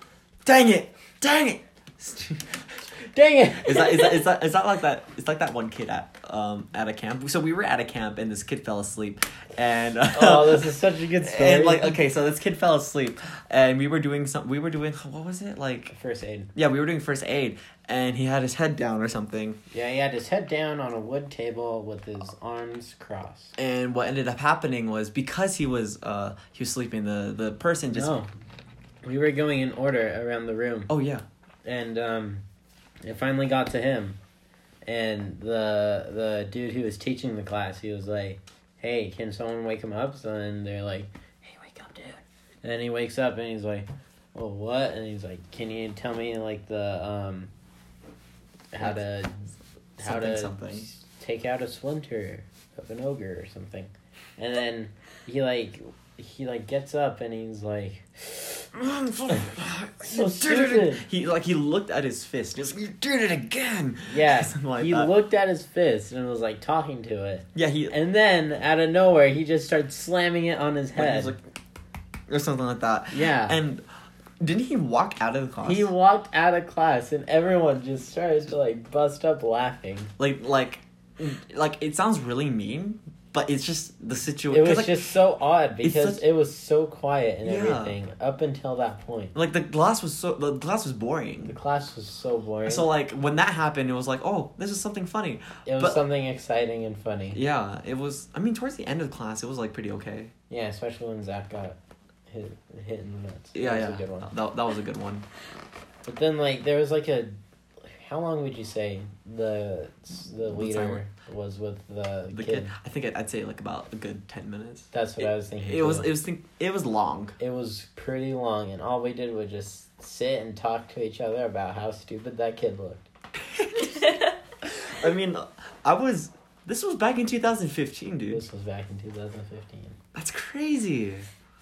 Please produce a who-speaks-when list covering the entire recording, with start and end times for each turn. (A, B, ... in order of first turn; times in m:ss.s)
0:00.4-0:02.9 A
0:03.1-0:04.3 B
0:03.6-0:15.9 A
0:10.1-0:12.0 B
0:15.9-0:16.5 B
0:16.6-0:19.6 A
0:19.7-0:23.5 B
0:23.6-0:28.2 A
0:27.9-0:28.3 B
0:29.0-0:30.9 B
0:30.9-0:31.2 A
0:31.6-0:32.4 B
0:33.0-0:34.2 B
0:34.8-0:47.5 B
0:48.7-0:58.6 B
0:50.0-0:50.9 A
0:58.7-1:05.1 A
1:00.0-1:01.0 B
1:04.1-1:11.3 B
1:07.5-1:08.0 A
1:11.0-1:11.4 A
1:12.3-1:13.8 A
1:13.1-1:13.6 B
1:14.4-1:15.9 A
1:15.6-1:20.1 B
1:20.2-1:25.2 A
1:24.5-1:29.4 B
1:25.8-1:26.2 A
1:27.4-1:28.0 A
1:29.3-1:31.6 A
1:31.4-1:32.9 B
1:32.6-1:36.0 A
1:35.7-1:37.4 B
1:37.3-1:40.3 A
1:40.5-1:41.8 B
1:42.3-1:44.3 B
1:43.5-1:45.3 A
1:46.1-1:52.7 B
1:50.5-1:51.0 A
1:52.3-1:57.4 A
1:54.9-1:56.1 B
1:57.4-2:03.0 B
2:03.4-2:08.4 A
2:08.3-2:10.0 B
2:10.1-2:11.3 A